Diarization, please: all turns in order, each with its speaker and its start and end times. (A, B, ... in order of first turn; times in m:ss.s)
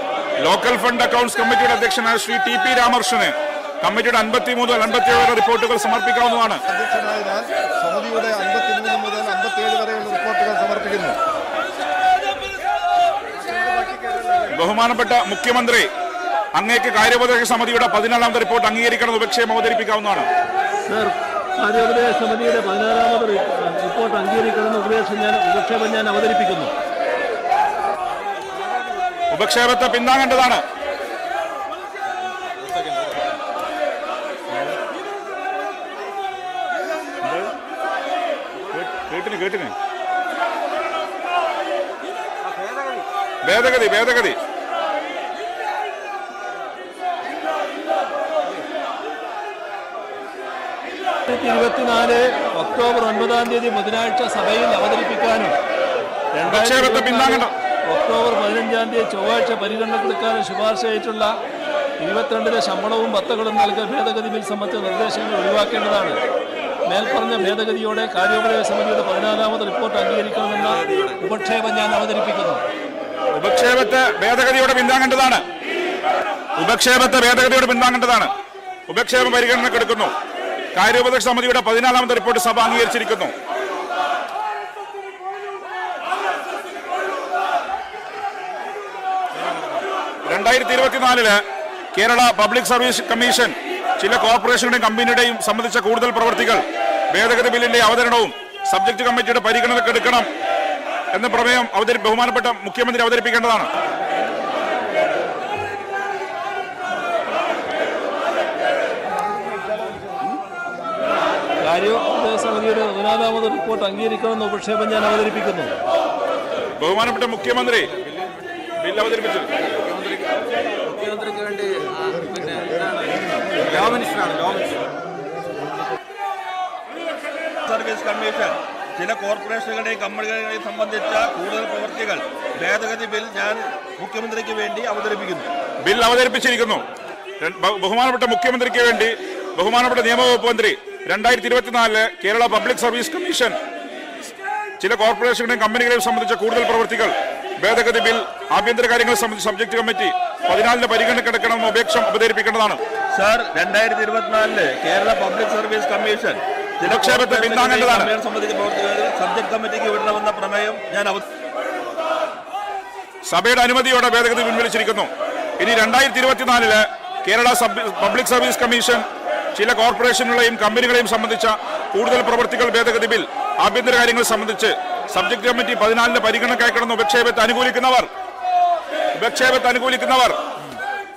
0:00.4-0:06.6 A
0:06.7-0:11.2 B
0:14.5-0:15.9 A
0:16.5-0:20.3 A
0:20.8-0:26.7 C
0:29.3-0:30.6 A
0:37.2-0:37.5 A
0:38.7-0:39.7 A
0:43.4-0:44.4 A
0:51.3-0:55.5 C
0:56.3-1:01.3 C
0:56.4-0:57.5 A
1:02.0-1:06.2 C
1:06.9-1:12.6 C
1:13.3-1:15.4 A
1:16.6-1:18.3 A
1:18.9-1:20.1 A
1:20.7-1:23.3 A
1:30.2-1:31.4 A
1:31.9-1:36.6 A
1:37.1-1:40.3 A
1:41.1-1:43.7 A
1:51.6-1:55.7 C
1:56.8-1:57.9 A
1:58.8-1:59.5 A
2:00.9-2:04.8 D
2:07.6-2:15.5 E
2:15.8-2:16.8 A
2:17.4-2:23.6 A
2:24.8-2:32.8 A
2:33.1-2:41.2 E
2:36.8-2:38.1 A
2:43.2-2:49.0 A
2:49.5-2:58.1 A
2:59.1-3:00.4 A